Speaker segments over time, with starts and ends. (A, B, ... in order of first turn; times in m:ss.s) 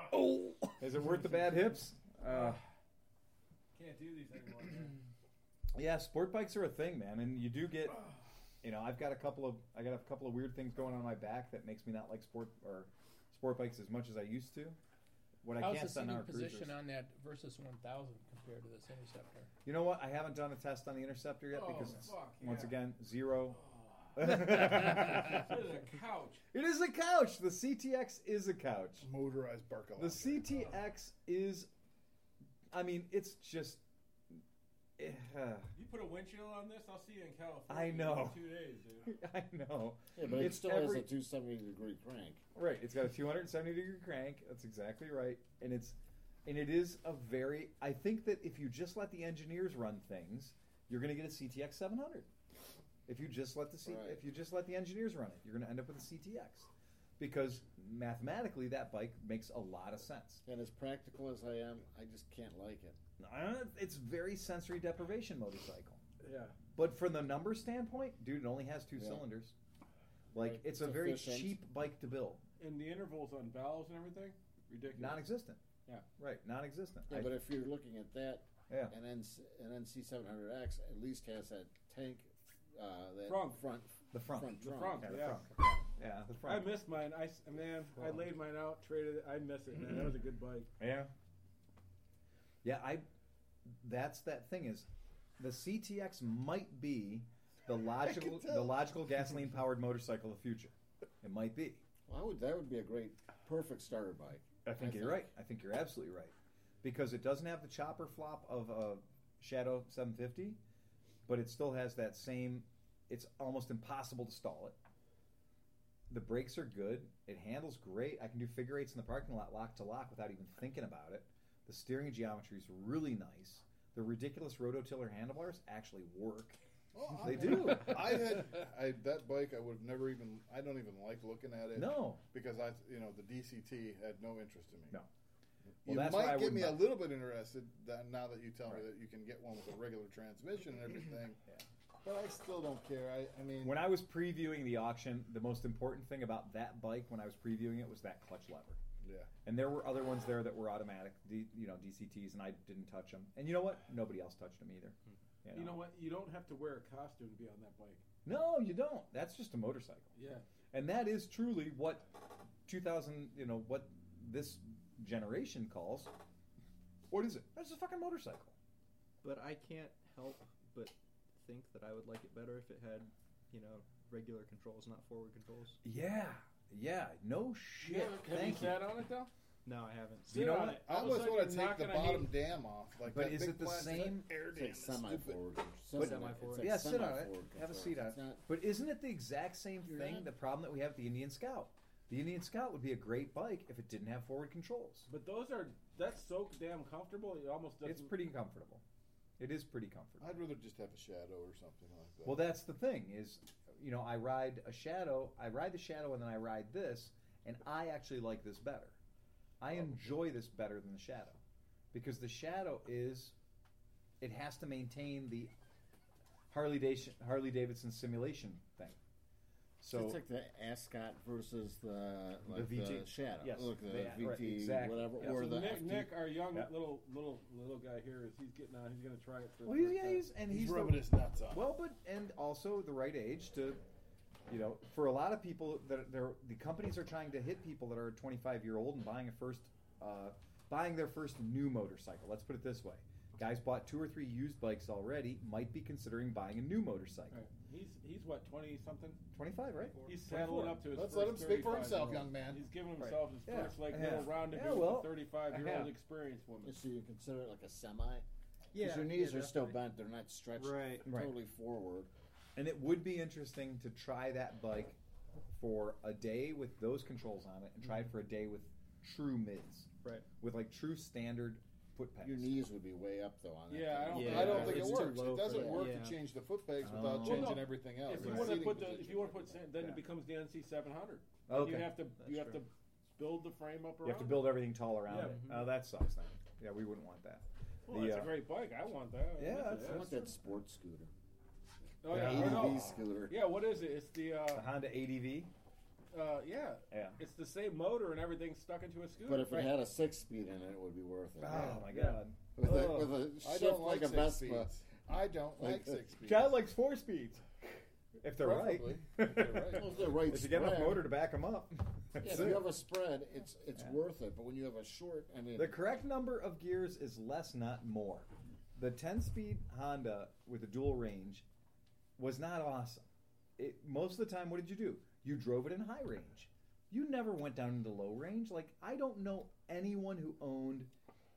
0:00.7-0:02.6 A
0:02.3-0:02.6 B
0:03.8-0:05.0 B
0:05.8-0:08.1 A
0:08.6-0:14.8 A
0:15.4-0:16.8 A
0:15.6-0:19.5 C
0:19.6-0:23.6 A
0:21.5-0:22.8 B
0:23.5-0:26.4 B
0:24.2-0:25.5 A
0:26.5-0:29.1 A
0:29.0-0:30.5 D
0:30.0-0:31.7 A
0:32.7-0:33.8 A
0:35.0-0:35.7 A
0:35.8-0:39.1 B
0:37.7-0:38.4 A
0:39.0-0:41.1 A
0:40.2-0:42.4 E
0:42.6-0:52.3 A
0:53.1-1:00.4 A
0:53.8-0:54.2 E
1:00.4-1:03.0 E
1:03.2-1:06.0 A
1:06.2-1:06.6 B
1:06.8-1:09.5 A
1:09.0-1:09.2 E
1:10.3-1:11.6 E
1:10.3-1:12.4 A
1:12.6-1:15.2 B
1:15.0-1:15.6 A
1:16.2-1:17.4 A
1:17.1-1:25.2 E
1:18.7-1:18.9 A
1:23.3-1:23.6 B
1:24.1-1:26.7 A
1:24.6-1:25.5 B
1:26.4-1:30.7 B
1:30.8-1:31.1 A
1:32.6-1:33.1 A
1:33.7-1:34.9 A
1:35.4-1:41.8 A
1:42.1-1:45.3 E
1:44.6-1:50.6 A
1:51.3-1:54.8 A
1:56.1-2:06.6 A
2:06.9-2:15.0 D
2:07.2-2:08.2 A
2:11.8-2:12.2 A
2:15.8-2:21.4 D
2:15.9-2:16.9 A
2:22.0-2:23.8 D
2:23.6-2:28.8 A
2:29.0-2:29.3 D
2:29.4-2:35.8 A
2:35.5-2:38.0 B
2:38.2-2:40.1 A
2:40.2-2:40.4 B
2:40.7-2:42.0 A
2:42.6-2:46.1 A
2:47.1-2:48.6 A
2:49.2-2:55.8 F
2:55.8-2:58.8 A
2:57.8-2:59.3 B
2:59.6-3:00.4 F
3:00.3-3:02.3 B
3:00.3-3:00.8 A
3:00.8-3:05.4 D
3:03.1-3:04.3 A
3:04.5-3:08.4 E
3:05.9-3:06.8 F
3:06.0-3:15.1 A
3:09.8-3:10.3 E
3:15.1-3:18.1 B
3:17.8-3:18.8 A
3:19.4-3:20.4 A
3:20.2-3:22.4 D
3:22.2-3:29.0 A
3:29.6-3:31.4 A
3:31.9-3:33.4 A
3:34.2-3:35.5 A
3:36.5-3:39.0 A
3:39.8-3:40.2 A
3:39.9-3:46.1 E
3:42.5-3:45.5 A
3:45.2-3:50.3 B
3:49.6-3:53.8 A
3:50.4-3:51.7 D
3:54.5-4:07.4 A
4:07.3-4:09.2 B
4:09.3-4:10.9 A
4:09.8-4:10.3 F
4:10.0-4:16.8 B
4:10.9-4:12.6 D
4:13.0-4:15.9 A
4:16.6-4:18.2 E
4:18.7-4:19.8 F
4:18.8-4:22.1 E
4:20.6-4:21.1 F
4:21.0-4:21.3 A
4:22.6-4:25.0 A
4:25.5-4:32.6 A
4:32.2-4:35.8 E
4:33.7-4:35.2 B
4:34.1-4:36.2 F
4:34.2-4:39.0 D
4:36.8-4:38.6 A
4:37.2-4:45.6 B
4:38.6-4:39.6 E
4:41.5-4:42.0 A
4:42.2-4:42.6 F
4:44.0-4:48.4 A
4:45.2-4:45.6 F
4:47.9-4:50.2 B
4:49.4-4:50.3 A
4:49.8-4:51.1 E
4:52.0-4:54.7 B
4:52.1-4:52.9 A
4:52.1-4:53.4 E
4:54.5-4:55.5 A
4:56.1-4:59.7 B
4:56.9-4:57.2 A
4:59.2-5:01.9 E
5:01.4-5:03.2 A
5:01.5-5:02.2 B
5:02.6-5:04.7 E
5:02.7-5:06.5 D
5:05.6-5:06.0 E
5:06.2-5:07.4 A
5:08.2-5:12.7 A
5:08.4-5:10.1 D
5:09.7-5:11.1 E
5:12.2-5:15.8 E
5:15.6-5:21.4 A
5:22.2-5:23.1 A
5:23.6-5:30.9 A